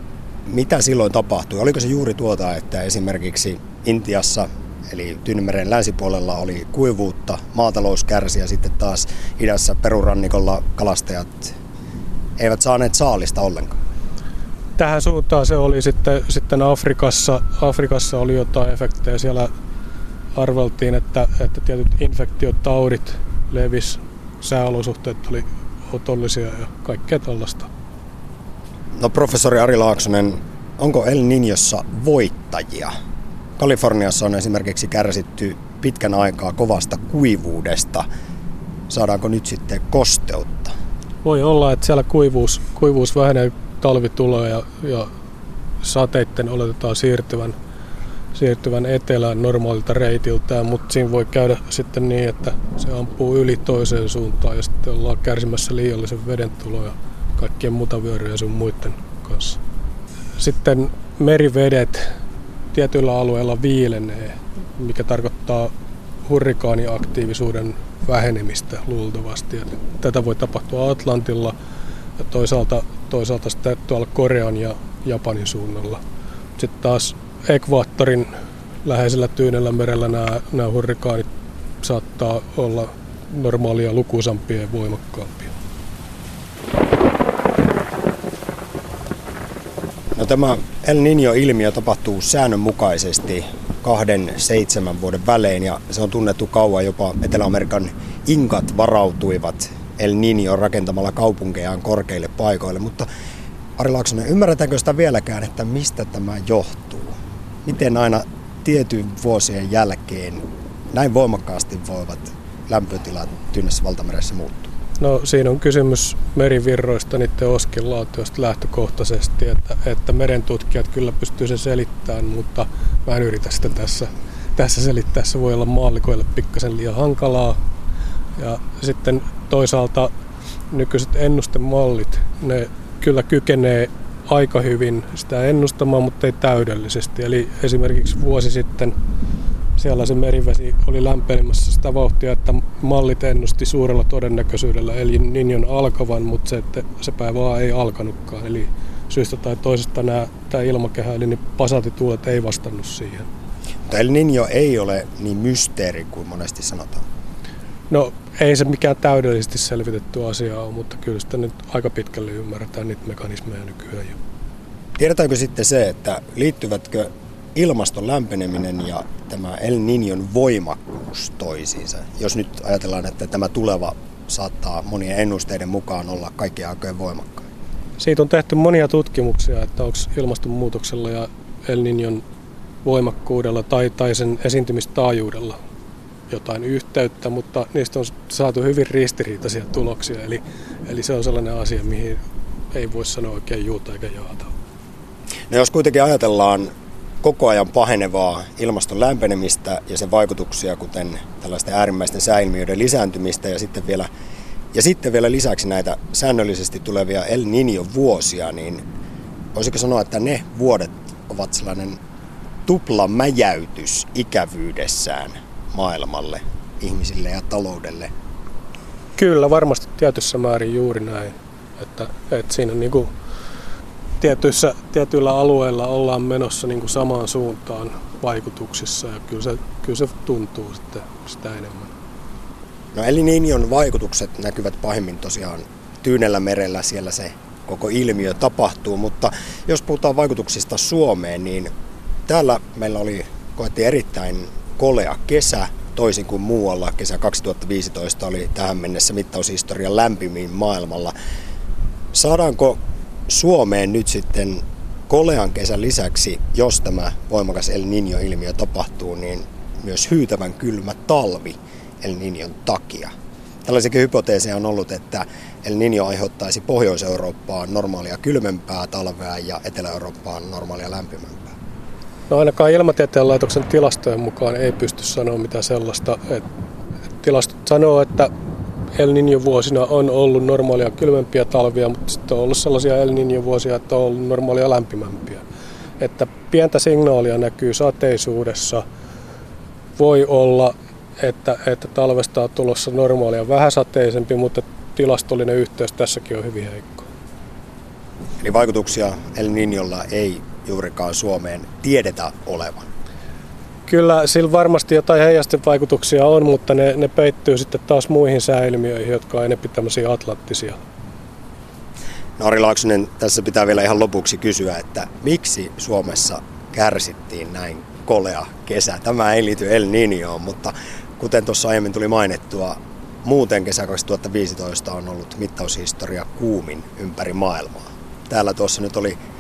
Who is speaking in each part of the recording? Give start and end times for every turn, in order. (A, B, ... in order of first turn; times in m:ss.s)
0:00.5-0:11.6 A
0:12.4-0:13.8 A
0:14.8-0:19.5 B
0:20.4-0:27.7 B
0:29.0-0:32.9 A
0:33.6-0:38.1 A
0:38.9-0:40.7 A
0:41.2-0:45.1 B
0:45.8-0:47.6 B
0:48.3-0:59.6 B
1:00.4-1:02.1 B
1:02.7-1:05.7 B
1:06.2-1:11.6 B
1:12.2-1:16.0 B
1:16.6-1:18.3 B
1:18.8-1:21.3 B
1:21.8-1:25.5 B
1:30.2-1:43.1 A
1:43.8-1:54.7 A
1:55.0-2:07.6 B
2:08.4-2:10.1 B
2:10.7-2:19.0 B
2:19.8-2:33.3 B
2:33.9-2:37.0 A
2:37.9-2:44.2 B
2:45.0-2:57.5 A
2:58.0-3:02.2 B
3:02.8-3:05.6 B
3:06.3-3:12.2 B
3:12.7-3:14.5 B
3:15.5-3:16.7 A
3:17.2-3:24.1 A
3:24.7-3:28.8 A
3:29.5-3:32.0 A
3:32.7-3:38.1 A
3:39.2-3:43.1 B
3:44.2-3:51.9 B
3:52.9-4:01.7 A
4:02.3-4:11.1 A
4:12.1-4:23.1 A
4:23.6-4:31.5 A
4:32.3-4:36.5 B
4:37.2-4:38.3 B
4:39.0-4:45.4 B
4:46.0-4:48.8 B
4:50.0-4:57.1 B
4:58.4-5:02.9 A
5:03.9-5:10.8 B
5:12.4-5:29.2 A